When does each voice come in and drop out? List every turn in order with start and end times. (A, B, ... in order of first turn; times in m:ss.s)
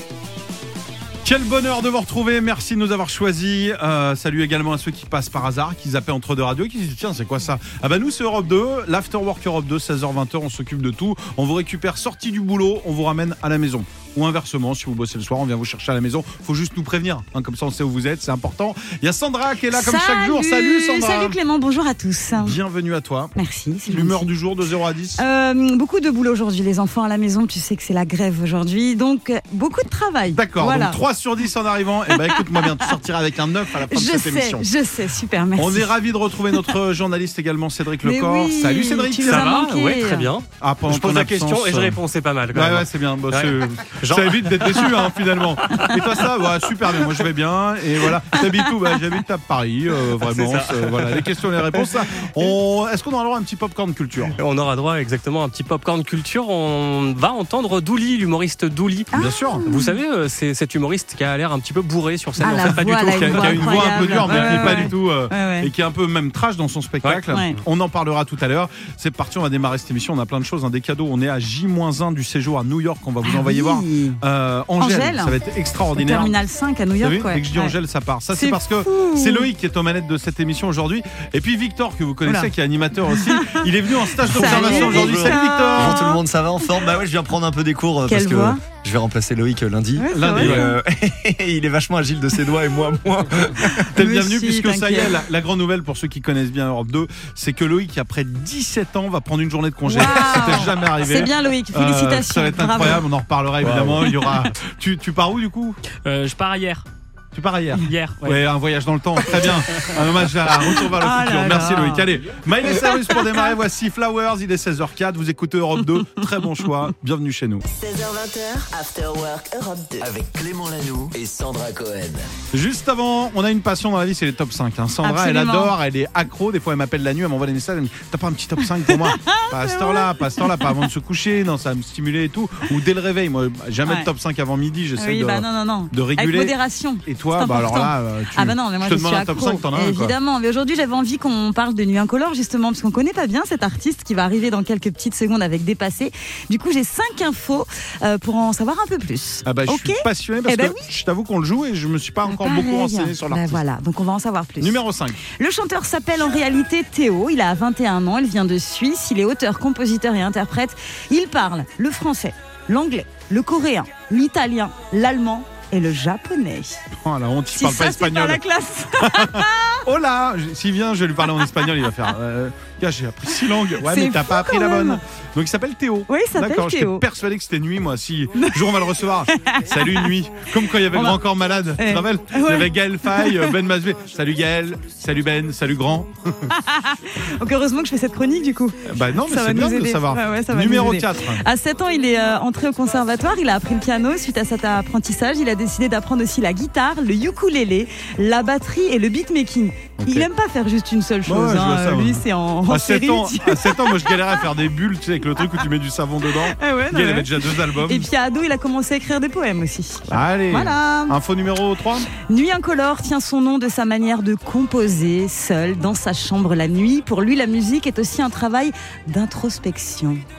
0:01.2-0:21.4 A
0:19.7-0:22.6 B
0:22.4-0:23.3 A
0:23.4-0:24.3 B
0:23.9-0:25.2 A
0:25.2-0:31.0 B
0:30.3-0:34.7 A
0:32.1-0:33.0 B
0:33.7-0:35.9 B
0:35.6-0:39.5 A
0:38.0-0:40.3 B
0:39.2-0:46.2 C
0:40.6-0:42.0 A
0:42.5-0:54.3 A
0:50.2-0:52.3 C
0:54.4-0:59.1 C
0:59.1-1:00.0 B
0:59.1-0:59.6 A
0:59.6-1:04.8 C
1:02.4-1:05.7 B
1:02.6-1:16.4 A
1:07.3-1:07.6 B
1:13.2-1:14.2 B
1:14.8-1:15.4 B
1:16.0-1:17.8 B
1:17.0-1:26.1 A
1:18.3-1:19.5 B
1:22.2-1:26.2 B
1:24.4-1:33.9 D
1:28.1-1:28.6 B
1:30.0-1:30.8 B
1:30.1-1:30.7 A
1:33.9-1:45.8 A
1:34.0-1:35.2 B
1:39.8-1:43.1 B
1:43.6-1:44.0 D
1:46.0-1:46.8 E
1:47.3-1:57.6 A
1:47.8-1:48.4 E
1:49.3-1:49.9 E
1:50.9-1:52.1 B
1:52.6-1:53.5 B
1:57.7-2:00.1 F
2:00.0-2:02.2 G
2:02.5-2:20.1 A
2:05.0-2:05.7 B
2:08.6-2:10.9 B
2:15.0-2:30.8 B
2:29.4-2:33.6 A
2:32.2-2:46.8 B
2:34.6-2:35.2 A
2:46.9-2:48.4 A
2:47.5-2:49.8 B
2:49.0-3:06.5 A
2:53.3-2:55.0 B
2:56.1-2:57.0 B
2:58.4-2:58.7 B
2:59.3-3:00.1 B
3:00.8-3:01.2 B
3:01.8-3:03.6 B
3:06.5-3:24.4 B
3:08.8-3:11.4 A
3:20.0-3:20.3 A
3:21.2-3:28.1 A
3:26.3-3:31.2 B
3:30.1-3:32.1 A
3:32.1-3:40.2 B